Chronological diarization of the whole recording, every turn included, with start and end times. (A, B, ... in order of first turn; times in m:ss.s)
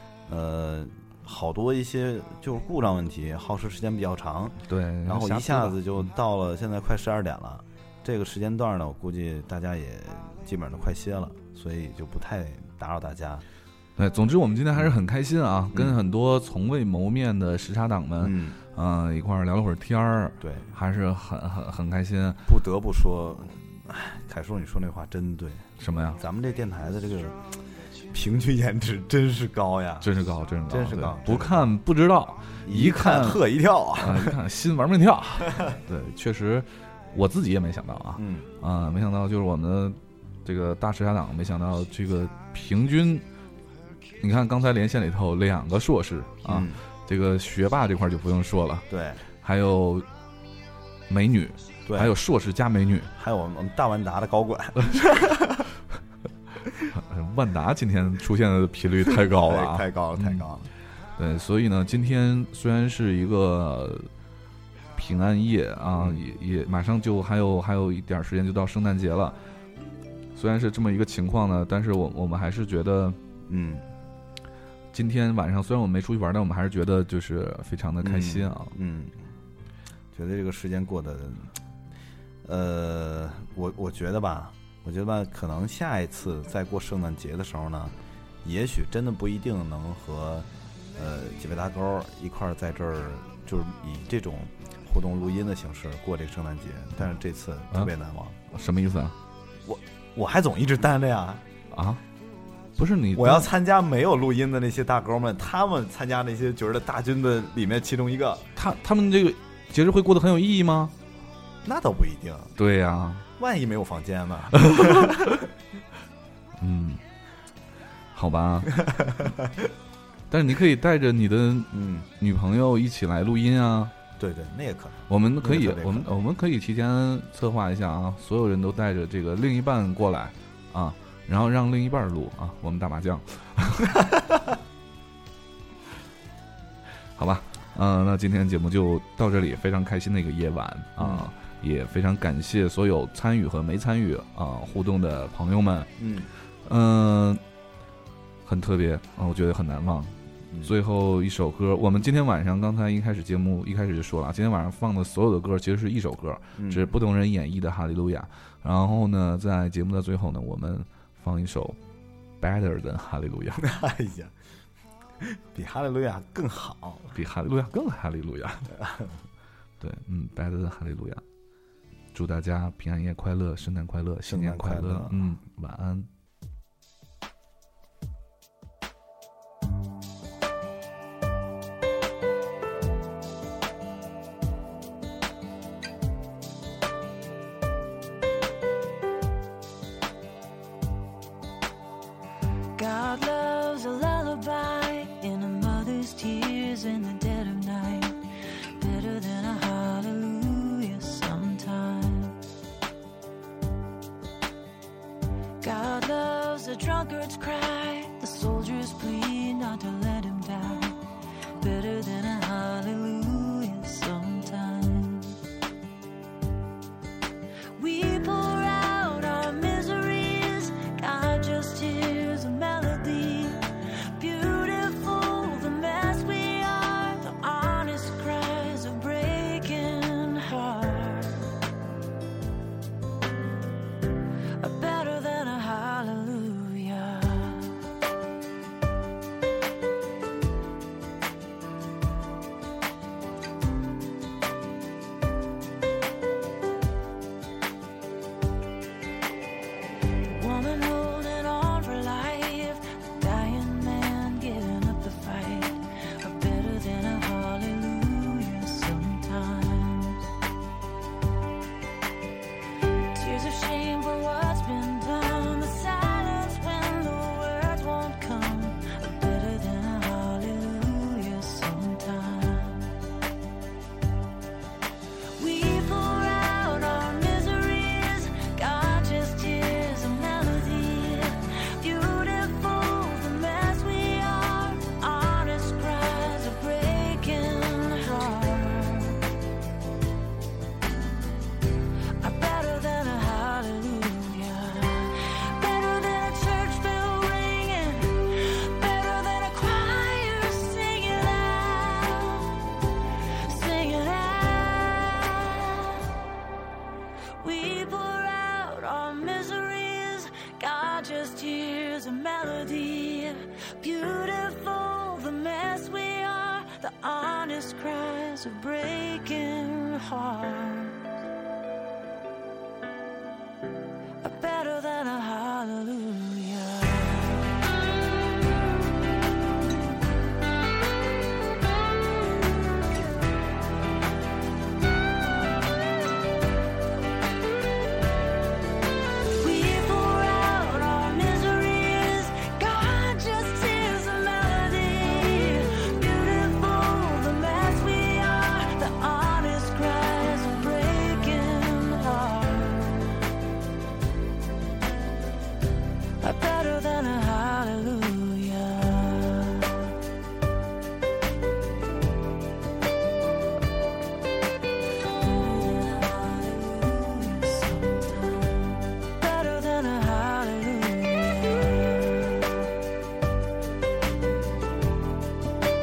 0:00.3-0:13.4 A
0:04.7-0:05.8 B
0:14.0-0:22.4 B
0:18.2-0:18.6 A
0:20.4-0:20.7 A
0:22.5-0:30.1 A
0:25.8-0:26.2 B
0:30.0-0:33.4 B
0:30.7-0:31.7 A
0:32.6-0:34.3 A
0:34.0-0:43.2 B
0:38.2-0:38.5 A
0:44.2-0:50.0 B
0:46.5-0:46.8 A
0:48.9-0:49.2 A
0:51.1-0:53.1 B
0:51.9-0:52.1 A
0:53.2-0:55.6 A
0:54.8-0:55.2 B
0:56.9-1:00.5 B
0:59.4-1:00.6 A
1:01.2-1:04.1 B
1:05.0-1:09.4 B
1:06.0-1:06.2 A
1:10.3-1:13.2 B
1:13.5-1:13.8 A
1:14.9-1:18.7 B
1:18.0-1:19.2 A
1:20.1-1:21.5 A
1:22.4-1:38.4 A
1:38.5-1:39.1 B
1:39.6-1:41.4 A
1:41.7-1:42.0 B
1:42.8-1:43.5 B
1:43.2-1:48.5 A
1:48.6-1:50.9 B
1:51.6-1:52.5 A
1:52.6-1:53.2 B
1:53.4-1:55.4 A
1:54.6-1:55.1 B
1:56.6-1:57.0 B
1:58.1-1:58.7 B
1:59.1-1:59.4 A
2:00.3-2:03.9 B
2:01.7-2:02.1 A
2:04.2-2:06.1 A
2:05.1-2:14.0 B
2:17.2-2:25.9 B
2:21.0-2:21.3 A
2:26.0-2:26.3 A
2:26.6-2:27.4 B
2:28.4-2:41.8 B
2:36.6-2:36.8 A
2:42.4-2:43.6 B
2:43.6-2:44.3 A
2:45.2-2:47.1 A
2:47.1-2:48.7 B
2:48.8-2:49.1 A
2:49.8-2:51.2 B
2:52.1-2:56.1 B
2:54.3-2:55.2 A
3:12.8-3:18.2 C
3:18.8-3:22.3 C
3:25.6-3:31.0 C
3:31.6-3:35.3 C
3:37.8-3:43.6 C
3:44.2-3:51.4 C
3:54.6-3:57.7 C
4:10.2-4:20.2 C
4:23.1-4:32.9 C
4:35.4-4:49.2 C
4:52.2-5:02.6 C
5:03.5-5:05.8 C
5:07.4-5:21.0 C
5:24.2-5:27.5 C
5:39.4-5:53.1 C
5:56.2-5:59.8 C
6:05.2-6:12.5 C